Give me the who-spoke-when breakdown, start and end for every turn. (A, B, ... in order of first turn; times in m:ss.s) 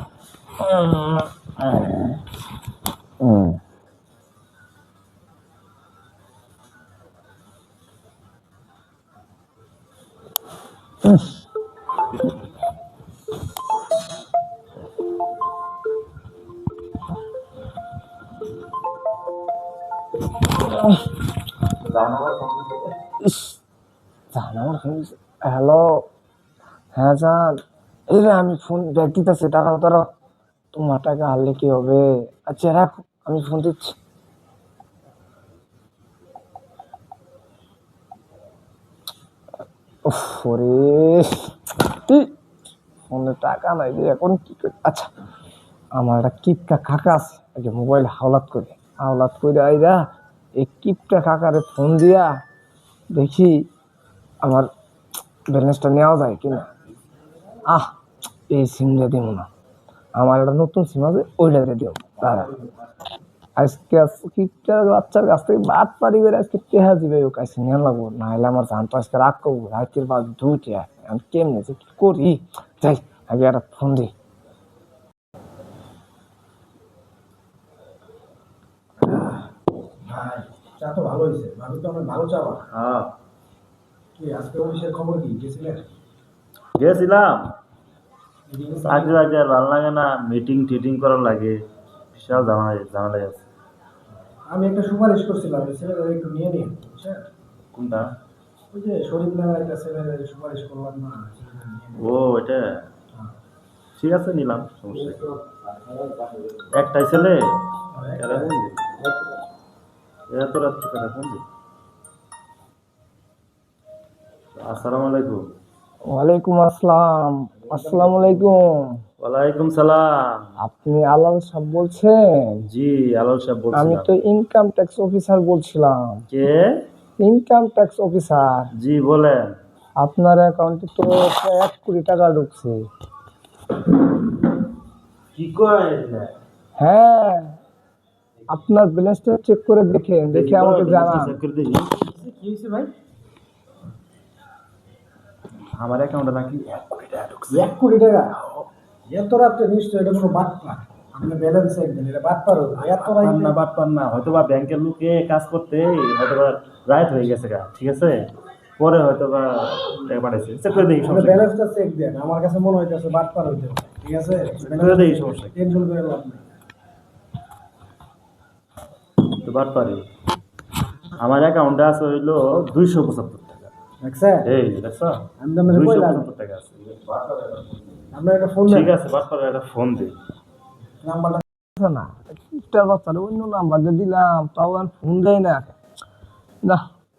0:00.6-0:02.2 A
0:03.2-0:03.6 A
0:21.9-0:22.9 B
0:23.2-0:23.6 A
0:24.3-0:26.0 A
0:27.0-0:27.6 A
0:28.1-0:30.0 A
0:30.7-0:34.0 A
0:40.1-0:42.3 A
0:43.1-0:45.1 A
0:46.0-0:50.0 A
0:50.6-0:52.3 A
0:53.1-0:53.6 A
0:55.5-0:56.7 A
0:58.5-0:59.5 A
1:00.2-1:02.6 A
1:03.6-1:14.1 A
1:19.0-1:19.5 C
1:20.0-1:22.6 C
1:22.7-1:23.1 B
1:24.2-1:25.8 C
1:26.8-1:27.5 B
1:28.5-1:29.2 C
1:28.8-1:31.6 B
1:32.1-1:33.5 B
1:34.5-1:37.2 C
1:37.7-1:38.1 B
1:38.7-1:42.2 C
1:42.0-1:42.8 B
1:44.0-1:45.4 B
1:46.7-1:47.4 B
1:47.9-1:48.6 C
1:48.2-1:48.8 B
1:50.3-1:51.4 B
1:54.6-1:55.4 B
1:56.1-1:59.0 A
1:57.7-1:58.5 C
1:59.2-2:00.5 B
2:00.6-2:02.6 A
2:02.7-2:04.1 B
2:03.7-2:06.2 A
2:06.3-2:06.6 B
2:07.2-2:08.7 A
2:08.8-2:09.5 B
2:10.0-2:12.8 A
2:15.3-2:16.3 B
2:16.8-2:17.6 A
2:18.5-2:21.4 A
2:20.3-2:21.9 B
2:22.0-2:22.9 C
2:25.8-2:27.6 B
2:27.5-2:33.5 C
2:32.9-2:38.3 B
2:38.8-2:41.5 B
2:40.7-2:46.4 C
2:44.6-2:45.6 B
2:49.4-2:50.0 B
2:51.2-2:53.7 B
2:54.0-2:54.5 C
2:54.4-2:57.8 B
2:55.4-2:56.3 C
2:58.1-2:59.0 C
2:58.7-3:00.1 B
3:01.0-3:01.4 C
3:01.8-3:05.7 A